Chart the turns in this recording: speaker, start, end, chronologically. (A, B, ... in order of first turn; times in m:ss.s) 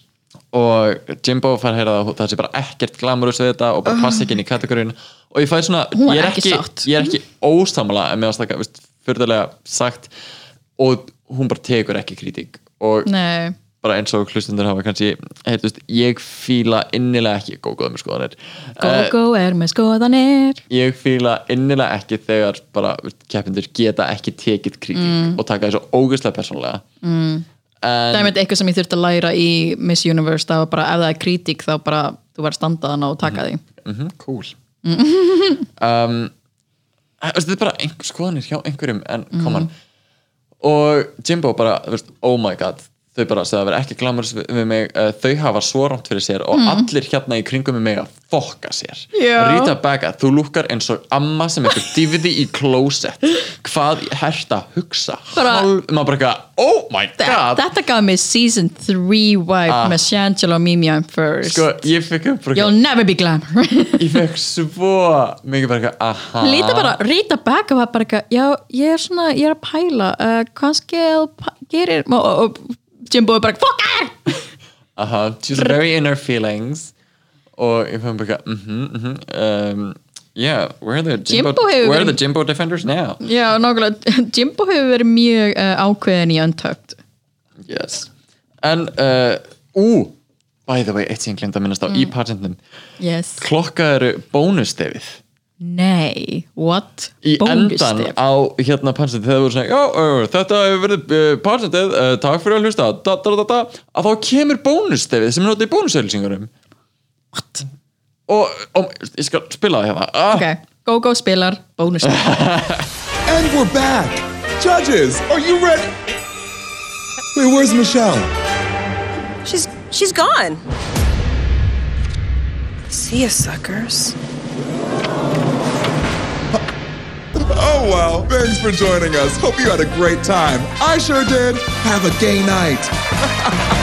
0:00.5-0:10.1 A
0:03.9-0:04.3 B
0:06.0-0:07.1 B
0:10.8-0:13.1 A
0:13.0-0:13.6 B
0:13.8-0:19.1 A
0:18.8-0:20.6 B
0:20.7-0:26.8 A
0:24.9-0:25.4 B
0:27.0-0:27.4 B
0:27.8-0:28.3 A
0:28.1-0:33.6 B
0:33.2-0:34.6 A
0:34.8-0:35.7 B
0:35.8-0:36.3 A
0:37.2-0:39.7 A
0:39.3-0:39.7 B
0:40.6-0:57.6 A
0:46.5-0:46.9 B
0:49.1-0:49.7 B
0:55.4-0:55.7 B
0:57.2-1:01.7 B
0:59.7-1:00.0 A
1:01.4-1:02.7 A
1:02.6-1:04.2 B
1:04.0-1:07.0 A
1:06.4-1:14.4 B
1:15.0-1:16.9 A
1:17.6-1:23.2 A
1:21.3-1:22.2 B
1:23.2-1:27.0 B
1:27.6-1:28.1 A
1:28.6-1:30.1 A
1:30.7-1:32.6 A
1:33.0-1:33.5 B
1:33.4-1:35.2 A
1:35.6-1:38.1 B
1:37.2-1:46.5 A
1:47.4-1:47.6 B
1:48.3-1:50.5 A
1:50.3-1:52.5 B
1:52.0-1:52.9 A
1:53.3-1:56.0 C
1:57.4-1:58.3 C
1:59.4-2:00.6 D
2:02.9-2:04.1 D
2:07.5-2:13.0 C